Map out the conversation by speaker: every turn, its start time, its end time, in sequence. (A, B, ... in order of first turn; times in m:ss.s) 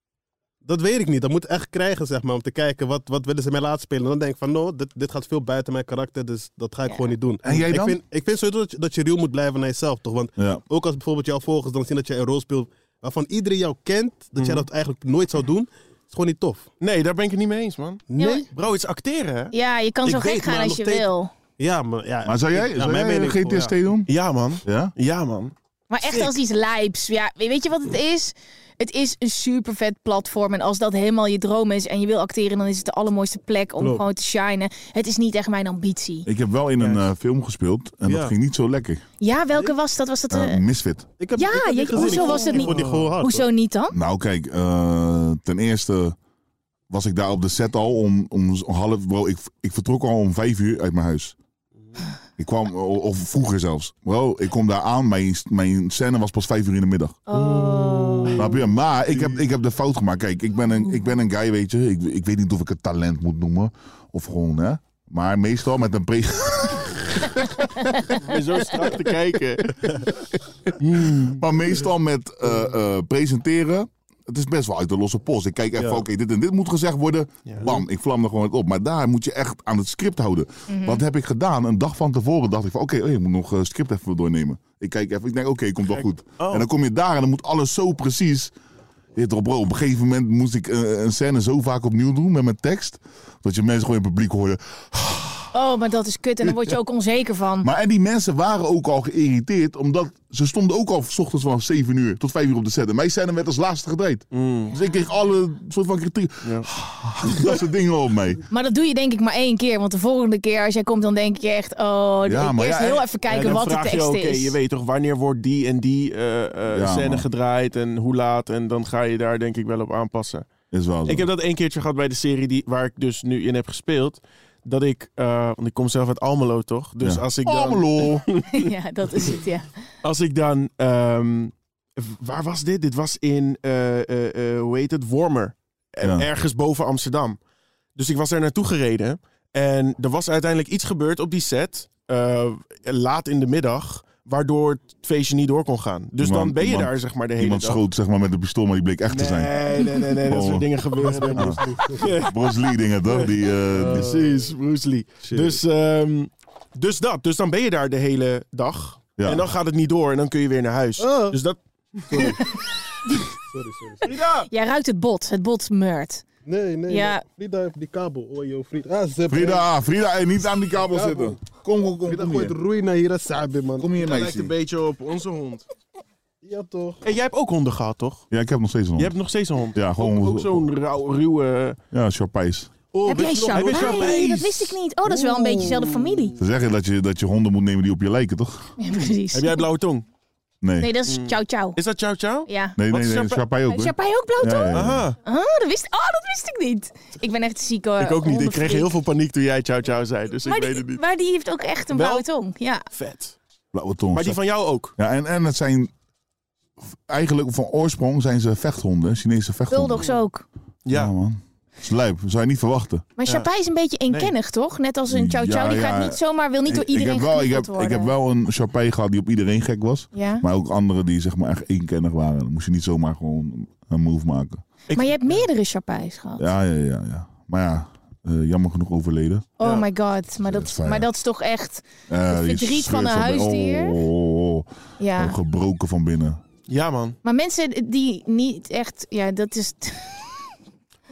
0:00.6-0:16.7 A
0:07.4-0:08.0 B
0:10.4-0:10.6 B
0:14.4-0:14.7 C
0:16.8-0:19.5 C
0:18.1-0:18.5 A
0:18.2-0:18.5 D
0:19.5-0:21.3 D
0:20.0-0:23.8 A
0:22.2-0:24.1 B
0:24.1-0:26.3 C
0:24.6-0:24.9 B
0:25.9-0:36.3 D
0:33.8-0:34.0 A
0:36.3-0:39.0 B
0:38.0-0:38.3 A
0:39.2-0:40.6 D
0:40.3-0:41.1 B
0:41.2-0:43.5 A
0:41.4-0:44.0 D
0:42.0-0:43.2 C
0:43.9-0:46.2 B
0:46.9-0:51.4 B
0:52.4-0:57.2 B
0:57.3-0:58.6 D
0:57.4-0:58.4 A
0:58.4-1:07.4 B
1:08.2-1:10.2 C
1:10.8-1:11.5 C
1:11.2-1:28.5 B
1:15.8-1:16.0 A
1:20.7-1:21.0 D
1:25.9-1:26.7 C
1:29.2-1:35.5 B
1:35.5-1:37.7 D
1:37.6-1:48.4 B
1:44.3-1:44.8 C
1:46.4-1:46.7 C
1:48.5-1:54.6 D
1:52.2-1:53.1 B
1:53.3-2:00.5 C
1:56.7-1:57.3 B
2:00.7-2:01.3 B
2:01.1-2:08.7 C
2:07.0-2:08.2 B
2:08.5-2:09.7 D
2:10.0-2:17.4 C
2:18.0-2:27.8 C
2:26.2-2:29.6 B
2:29.1-2:32.4 C
2:30.2-2:30.7 B
2:31.0-2:32.1 A
2:31.3-2:34.2 B
2:33.1-2:42.4 C
2:33.8-2:34.5 A
2:35.2-2:35.6 A
2:39.2-2:39.5 B
2:41.0-2:41.4 A
2:42.1-2:42.4 A
2:43.4-2:44.2 A
2:44.0-2:44.5 C
2:44.5-2:46.2 D
2:46.4-2:49.7 A
2:46.9-2:47.2 D
2:49.3-2:52.6 B
2:50.9-2:51.4 A
2:52.1-2:53.9 A
2:53.8-2:54.5 B
2:54.0-2:55.7 C
2:56.4-2:57.0 A
2:57.0-2:58.2 C
2:58.3-2:59.1 B
2:59.0-3:01.8 C
2:59.7-3:00.7 B
3:01.9-3:02.7 B
3:02.9-3:04.2 A
3:03.1-3:06.3 D
3:03.5-3:06.1 C
3:06.4-3:08.7 B
3:08.8-3:09.7 D
3:08.9-3:10.1 C
3:10.6-3:10.9 B
3:10.8-3:11.8 D
3:11.1-3:13.4 C
3:12.5-3:12.8 D
3:12.8-3:15.1 B
3:13.7-3:18.9 D
3:14.7-3:15.2 C
3:18.0-3:21.0 C
3:20.4-3:22.9 D
3:21.9-3:22.2 C
3:22.9-3:23.4 C
3:23.7-3:24.4 B
3:24.1-3:24.9 C
3:25.0-3:25.9 B
3:26.9-3:30.1 B
3:29.7-3:30.4 D
3:30.9-3:31.1 C
3:30.9-3:33.1 B
3:33.2-3:38.1 D
3:34.1-3:34.3 C
3:35.1-3:44.6 B
3:40.1-3:40.4 D
3:44.9-3:45.4 C
3:44.9-3:46.5 D
3:46.4-3:49.5 B
3:49.6-3:54.0 D
3:49.6-3:49.9 C
3:50.4-3:51.1 B
3:52.1-3:56.4 B
3:55.0-3:55.4 D
3:56.7-3:57.2 C
3:57.2-4:00.5 D